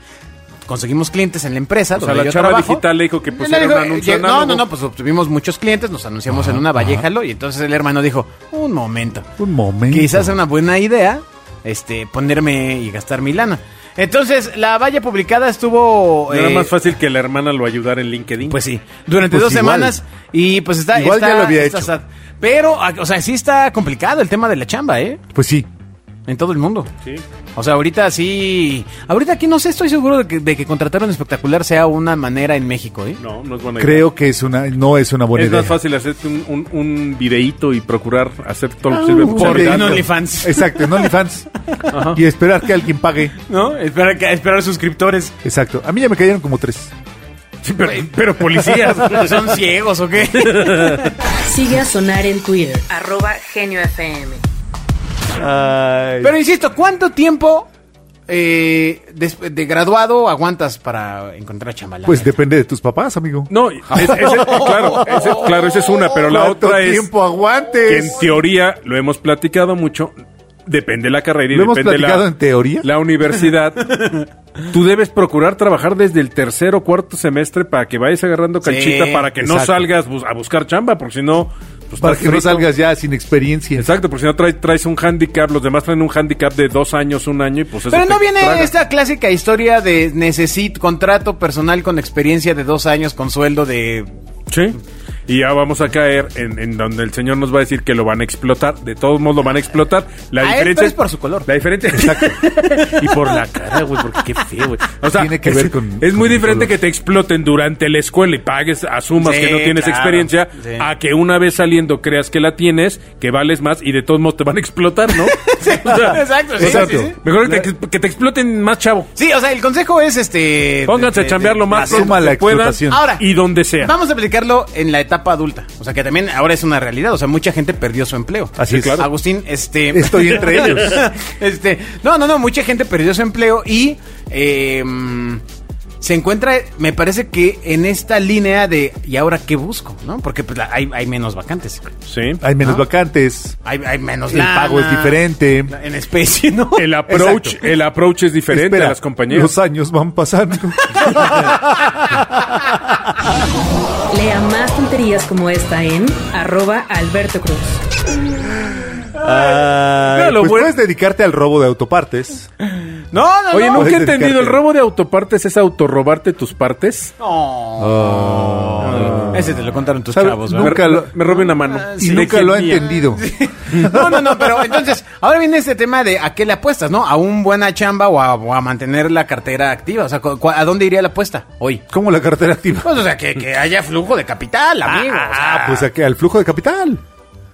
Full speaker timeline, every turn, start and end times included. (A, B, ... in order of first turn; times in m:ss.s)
0:00.7-0:09.3 A
0:01.9-0:04.6 B
0:06.3-0:07.0 C
0:09.4-0:10.3 C
0:09.9-0:16.7 A
0:16.3-0:18.6 B
0:18.5-0:25.2 A
0:19.2-0:20.0 C
0:20.9-0:21.9 C
0:25.3-0:25.7 C
0:26.3-0:26.9 A
0:27.6-0:33.2 A
0:33.2-0:34.1 B
0:33.8-0:35.8 C
0:35.3-0:40.0 B
0:39.0-0:41.1 A
0:39.2-0:41.5 C
0:41.9-0:42.2 B
0:42.1-0:43.3 C
0:43.5-0:45.3 A
0:45.4-0:46.9 C
0:47.6-0:49.6 B
0:48.6-0:51.2 A
0:50.3-0:51.1 B
0:51.3-0:54.4 D
0:55.3-0:56.3 C
0:56.2-0:57.7 A
0:58.3-1:02.3 A
1:02.0-1:05.3 C
1:03.5-1:07.1 B
1:04.2-1:05.6 A
1:06.2-1:08.3 C
1:07.8-1:10.1 B
1:10.6-1:12.2 B
1:11.5-1:12.9 C
1:12.8-1:14.0 B
1:13.9-1:14.2 A
1:14.7-1:22.7 B
1:18.6-1:19.3 A
1:19.4-1:19.9 C
1:22.0-1:23.9 C
1:23.8-1:28.7 B
1:27.9-1:34.1 A
1:34.5-1:59.1 B
1:40.4-1:41.5 A
1:41.9-1:42.4 C
1:42.6-1:43.1 A
1:45.1-1:46.7 C
1:49.2-1:50.8 A
1:55.1-1:57.2 A
1:56.6-1:57.7 C
1:59.2-2:02.1 A
2:00.8-2:03.9 B
2:01.8-2:03.1 C
2:02.9-2:03.2 A
2:03.8-2:15.4 A
2:08.6-2:09.0 C
2:08.7-2:09.0 B
2:09.9-2:11.1 C
2:16.0-2:21.9 A
2:22.0-2:22.4 B
2:22.4-2:23.6 C
2:23.6-2:26.8 A
2:24.3-2:25.8 C
2:26.8-2:29.5 B
2:27.1-2:27.6 C
2:28.5-2:32.7 C
2:34.1-2:37.8 D
2:39.2-2:42.5 C
2:39.2-2:39.7 A
2:40.0-2:40.7 B
2:42.7-2:44.0 A
2:43.5-2:47.1 B
2:43.7-2:44.6 C
2:47.2-2:50.8 A
2:47.8-2:49.6 C
2:48.8-2:49.4 B
2:50.1-2:51.1 C
2:50.5-2:52.9 B
2:51.3-3:01.8 A
2:51.9-2:54.4 C
2:53.7-2:54.0 B
3:01.9-3:03.0 C
3:02.8-3:05.9 A
3:04.8-3:07.0 C